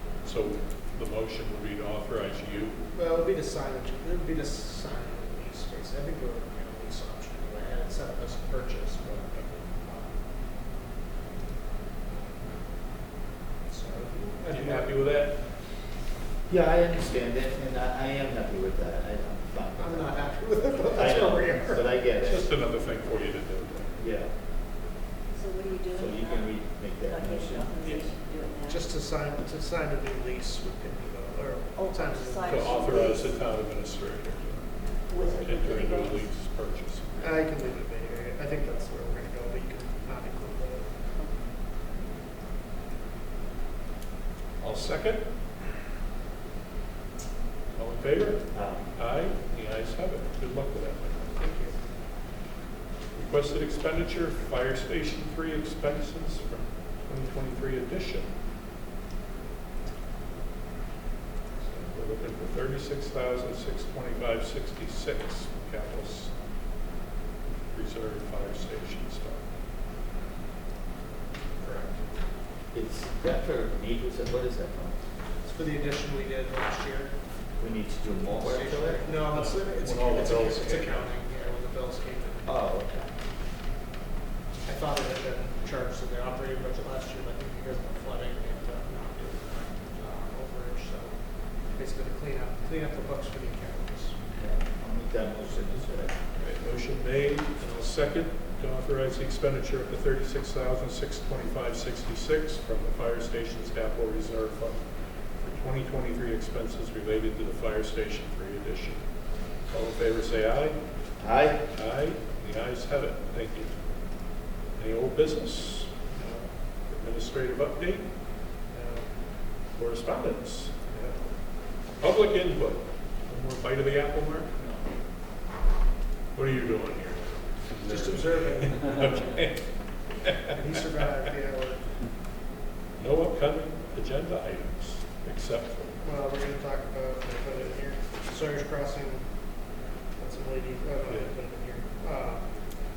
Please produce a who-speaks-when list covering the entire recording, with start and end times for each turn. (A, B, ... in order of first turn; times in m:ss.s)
0:00.2-0:02.8 A
0:02.9-0:10.2 B
0:13.6-0:15.0 B
0:14.5-0:15.5 A
0:16.5-0:20.4 C
0:19.8-0:22.0 B
0:20.9-0:22.5 C
0:22.2-0:24.0 A
0:24.0-0:24.3 C
0:25.3-0:28.9 D
0:25.9-0:27.7 C
0:28.7-0:33.2 B
0:31.7-0:33.3 D
0:32.5-0:37.4 A
0:35.1-0:36.3 D
0:37.2-0:41.1 B
0:44.6-0:45.3 A
0:47.7-0:51.4 A
0:48.5-0:48.9 C
0:51.4-0:51.8 B
0:53.1-0:58.3 A
1:01.6-1:06.3 A
1:07.7-1:09.4 A
1:11.6-1:12.0 B
1:12.7-1:15.0 C
1:15.4-1:17.1 B
1:17.6-1:19.1 C
1:18.3-1:22.5 B
1:19.2-1:21.1 A
1:22.4-1:23.1 C
1:24.6-1:34.2 B
1:34.3-1:36.2 C
1:36.4-1:49.0 A
1:49.7-1:50.8 A
1:51.2-1:51.6 C
1:51.7-1:53.8 A
1:54.8-1:55.9 A
1:56.1-1:56.5 B
1:56.9-1:58.1 A
1:58.7-1:59.1 B
1:59.7-2:00.8 A
2:00.8-2:01.3 B
2:02.0-2:04.6 A
2:06.3-2:09.7 A
2:07.8-2:09.4 B
2:10.2-2:10.5 A
2:10.5-2:11.9 B
2:13.0-2:16.0 A
2:16.0-2:19.4 B
2:20.1-2:22.6 B
2:21.1-2:21.3 A